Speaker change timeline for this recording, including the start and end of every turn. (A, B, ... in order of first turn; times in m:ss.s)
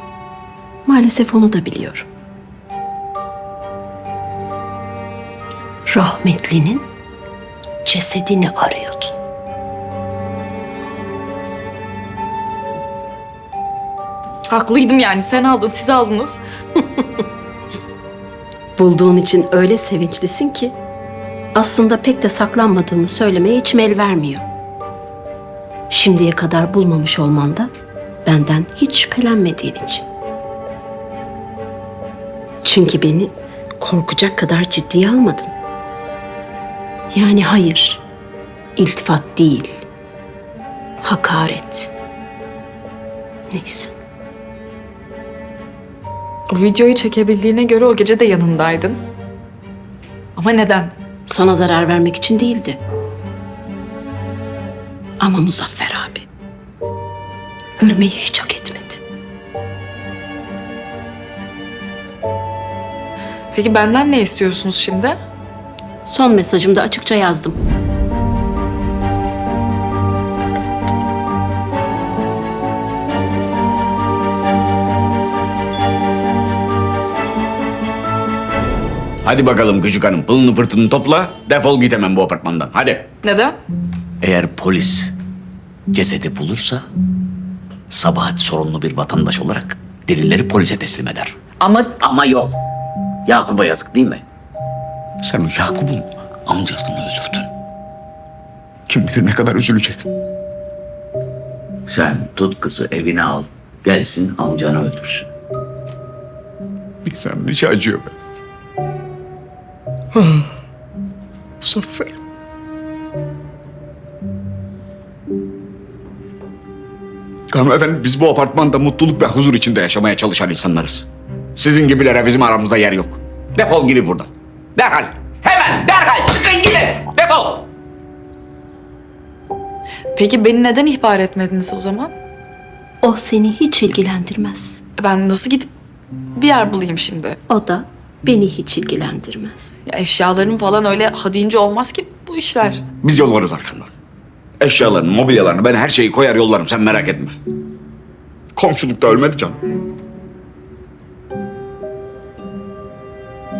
0:00.8-0:02.1 A
0:05.9-0:06.8 A
0:07.8-0:09.2 A
0:14.5-0:16.4 B
0:18.8-0:20.7 A
0:21.5-0:24.4 A
0:25.9-0:27.7 A
0:28.2-0:30.0 A
0:32.6-0:35.5 A
0:37.1-0:38.0 A
0:38.8-0:39.8 A
0:41.0-0:41.9 A
0:43.5-0:43.9 A
0:46.5-0:49.0 B
0:50.3-0:50.9 B
0:51.3-0:52.8 A
0:55.2-0:56.3 A
0:57.8-0:59.0 A
1:03.5-1:05.2 B
1:06.0-1:07.6 A
1:19.2-1:23.1 C
1:23.2-1:23.6 B
1:24.2-1:25.1 C
1:25.9-1:26.8 C
1:27.9-1:31.4 C
1:31.6-1:32.0 B
1:32.0-1:32.6 C
1:33.2-1:34.2 C
1:35.2-1:37.5 C
1:38.9-1:40.0 C
1:41.9-1:45.3 C
1:47.0-1:48.1 C
1:50.2-1:50.4 C
1:51.6-1:52.1 C
1:57.5-2:07.7 C
2:10.1-2:12.1 B
2:13.0-2:14.8 A
2:15.0-2:15.7 B
2:16.3-2:17.4 B
2:17.5-2:19.7 A
2:19.9-2:22.8 B
2:23.0-2:23.9 C
2:24.6-2:27.4 C
2:28.5-2:29.6 C